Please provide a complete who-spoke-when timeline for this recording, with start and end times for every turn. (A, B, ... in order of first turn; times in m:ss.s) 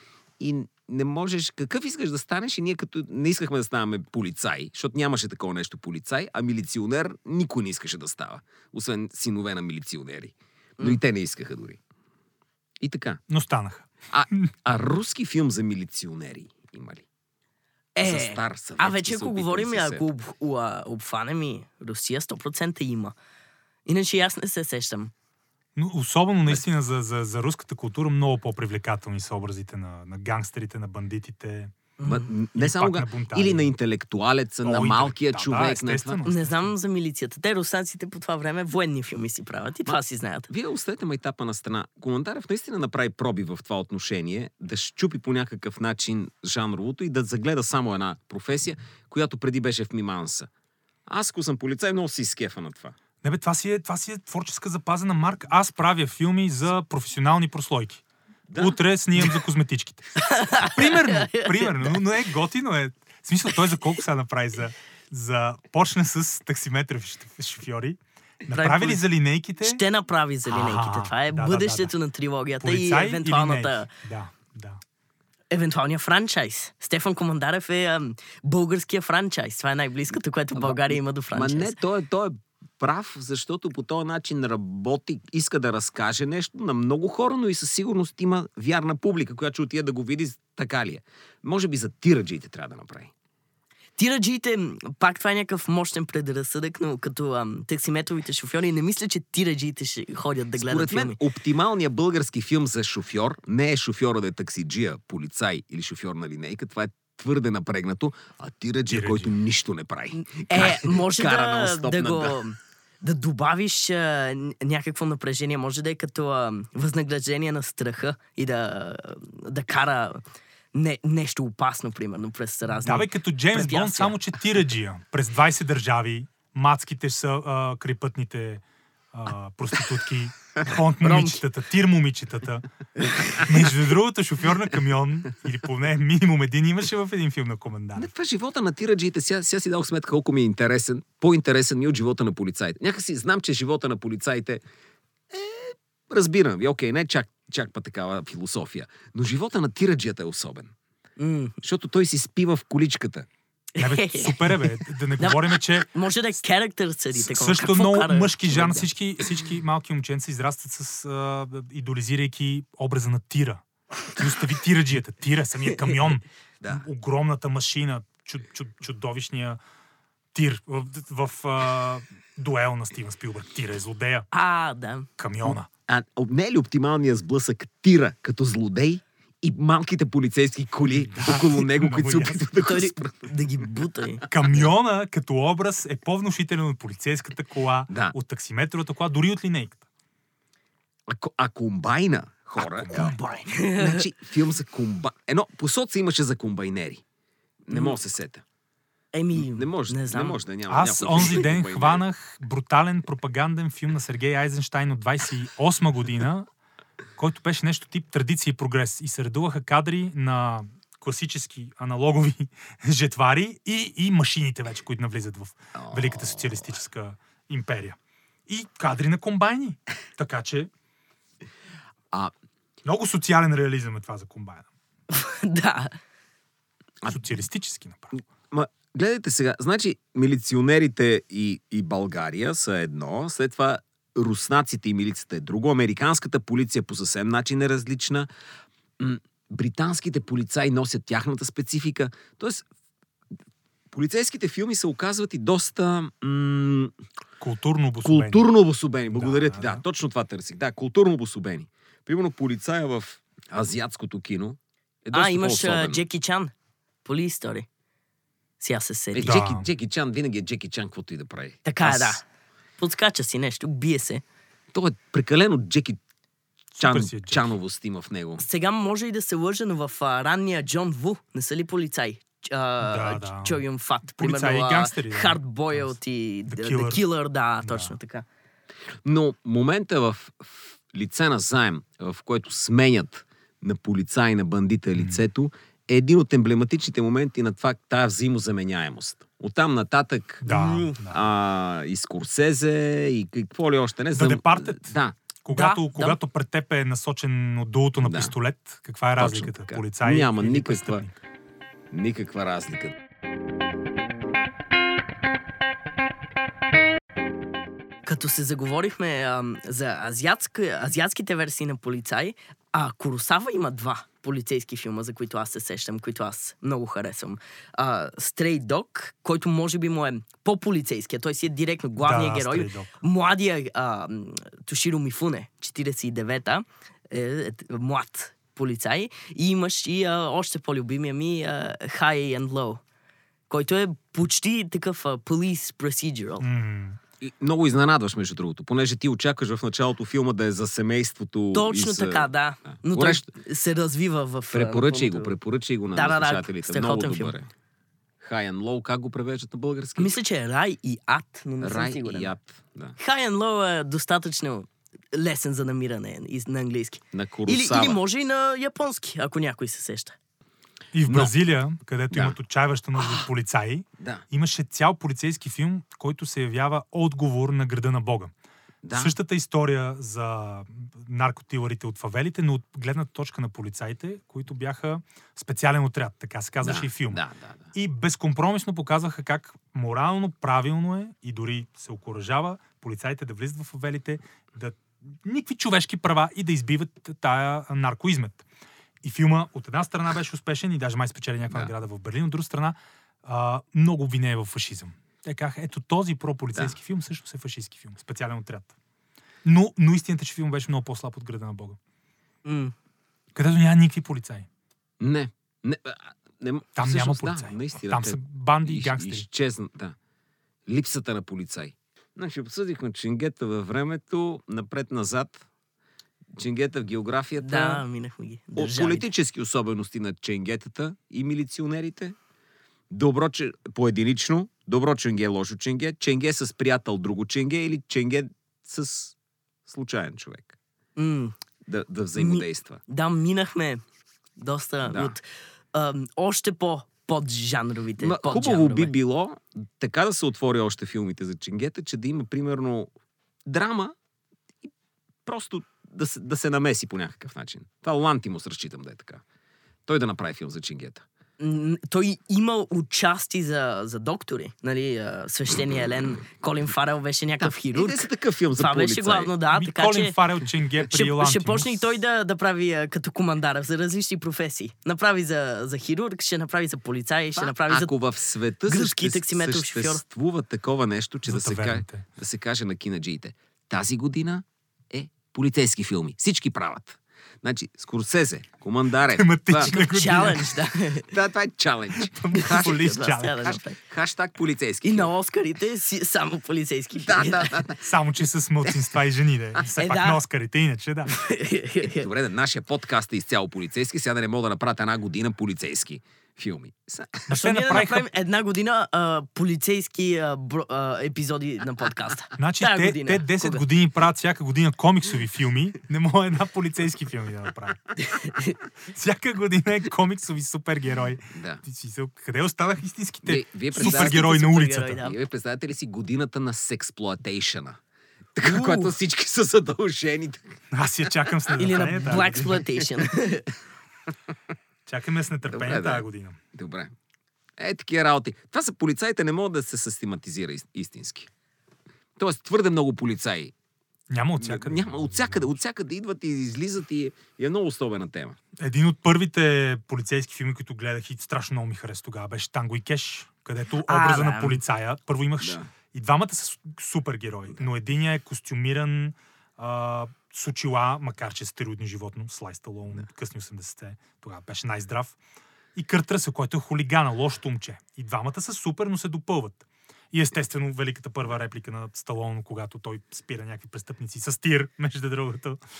0:00.4-0:11.8 A
0:12.8-0:13.2 A
0:13.3-0:14.5 B
0:14.1-0:17.0 A
0:17.9-0:23.1 C
0:18.0-0:20.0 A
0:23.8-0:25.1 C
0:25.8-0:31.7 B
0:32.0-0:32.3 C
0:32.0-0:36.2 A
0:32.5-0:33.7 B
0:34.6-0:36.7 B
0:36.2-0:40.5 C
0:40.5-0:50.5 A
0:51.0-0:53.0 A
0:53.2-0:58.0 B
0:58.5-0:58.8 A
0:58.6-1:09.8 B
1:00.2-1:02.0 C
1:08.5-1:09.0 C
1:09.6-1:13.9 C
1:10.5-1:11.9 B
1:12.6-1:14.8 B
1:15.5-1:21.8 C
1:20.5-1:33.1 A
1:34.0-1:41.2 C
1:40.6-1:52.4 A
1:48.9-1:49.3 B
1:50.1-2:00.2 C
2:00.7-2:04.2 C
2:02.8-2:12.6 B
2:11.0-2:11.4 C
2:13.3-2:18.1 B
2:18.0-2:24.6 A
2:25.3-2:30.7 A
2:31.2-2:31.6 C
2:31.6-2:33.3 A
2:33.7-2:38.9 C
2:33.8-2:35.9 B
2:37.1-2:43.6 B
2:44.1-2:49.6 B
2:50.3-2:54.3 B
2:54.3-2:55.1 C
2:55.2-2:55.7 B
2:55.4-3:03.3 A
3:00.9-3:02.5 B
3:02.6-3:04.3 C
3:04.3-3:09.8 B
3:07.9-3:08.1 A
3:11.1-3:13.2 A
3:12.6-3:13.2 B
3:12.9-3:14.0 C
3:13.7-3:17.0 A
3:17.6-3:18.4 A
3:17.7-3:18.0 C
3:19.1-3:20.4 C
3:19.3-3:22.0 A
3:20.7-3:26.5 B
3:27.2-3:38.0 B
3:35.7-3:36.8 A
3:38.5-3:40.7 B
3:42.8-3:44.6 B
3:45.1-3:45.9 C
3:47.1-3:48.2 B
3:48.5-3:58.3 A
3:59.0-4:02.6 A
4:03.9-4:06.9 A
4:07.4-4:08.5 B
4:08.0-4:16.0 A
4:09.1-4:09.8 B
4:15.1-4:16.5 C
4:17.0-4:17.7 C
4:18.6-4:19.4 C
4:19.1-4:22.2 A
4:19.2-4:19.6 B
4:21.6-4:22.2 C
4:22.8-4:24.2 C
4:24.7-4:26.0 A
4:26.8-4:27.6 B
4:26.8-4:28.4 A
4:28.4-4:38.2 C
4:32.8-4:37.0 B
4:37.6-4:37.9 B
4:39.0-4:50.4 A
4:45.0-4:45.2 B
4:50.4-4:51.0 C
4:50.4-4:51.2 B
4:51.0-4:55.2 A
4:54.1-5:01.1 B
4:55.5-4:56.2 C
4:58.0-4:58.3 A
4:59.2-5:01.0 A
5:01.9-5:03.0 A
5:08.0-5:32.8 C
5:22.0-5:22.9 B
5:33.5-5:36.4 C
5:36.4-5:37.0 B
5:37.2-5:43.3 A
5:41.5-5:45.3 C
5:44.5-5:47.5 A
5:45.9-5:47.3 C
5:48.2-5:50.2 A
5:50.0-5:52.3 C
5:51.6-5:53.0 A
5:53.0-6:00.1 C
5:57.1-5:58.0 A
6:00.9-6:08.3 B
6:01.1-6:01.3 A
6:02.1-6:02.4 A
6:04.0-6:04.2 A
6:08.8-6:09.2 A
6:08.9-6:17.2 B
6:16.6-6:17.7 A
6:17.7-6:28.4 B
6:29.0-6:38.7 B
6:39.4-6:41.8 B
6:42.4-6:42.7 C
6:43.3-6:44.5 B
6:45.0-6:50.0 A
6:46.8-6:49.3 B
6:50.7-6:55.4 A
6:56.3-6:57.8 A
6:57.4-6:59.1 C
6:58.5-7:02.2 A
7:02.9-7:09.1 A
7:09.6-7:10.6 A
7:11.0-7:11.4 C
7:11.6-7:12.8 A
7:12.2-7:13.8 C
7:14.4-7:18.9 C
7:14.8-7:15.2 A
7:18.0-7:22.9 A
7:23.4-7:23.9 A
7:25.2-7:29.2 A
7:29.8-7:31.0 A
7:31.4-7:40.2 C
7:37.4-7:39.3 A
7:39.5-7:42.0 B
7:40.8-7:47.9 C
7:47.3-7:59.8 A
7:48.7-7:50.0 C
7:51.2-7:52.0 B
7:59.1-8:00.6 B
7:59.6-8:01.1 C
8:01.0-8:05.1 A
8:02.0-8:03.6 B
8:02.3-8:03.8 C
8:04.8-8:07.6 C
8:06.9-8:07.8 A
8:07.8-8:11.2 B
8:08.6-8:08.9 A
8:09.8-8:10.2 C
8:11.1-8:12.1 C
8:11.8-8:17.3 A
8:17.3-8:18.1 B
8:17.3-8:23.6 C
8:22.4-8:28.0 B
8:28.0-8:28.6 C
8:28.9-8:35.1 B
8:31.3-8:31.6 A
8:33.2-8:34.2 A
8:33.8-8:35.1 C
8:35.0-8:37.8 A
8:38.4-8:40.6 A
8:38.4-8:38.9 C
8:40.7-8:42.9 B
8:41.5-8:43.5 C
8:44.9-8:46.4 B
8:45.5-8:46.9 A
8:47.6-8:51.3 A
8:52.2-8:53.5 A
8:54.1-8:55.5 B
8:54.4-8:58.4 A
8:58.6-9:15.2 B
9:03.8-9:04.6 C
9:05.4-9:05.7 A
9:15.7-9:25.6 B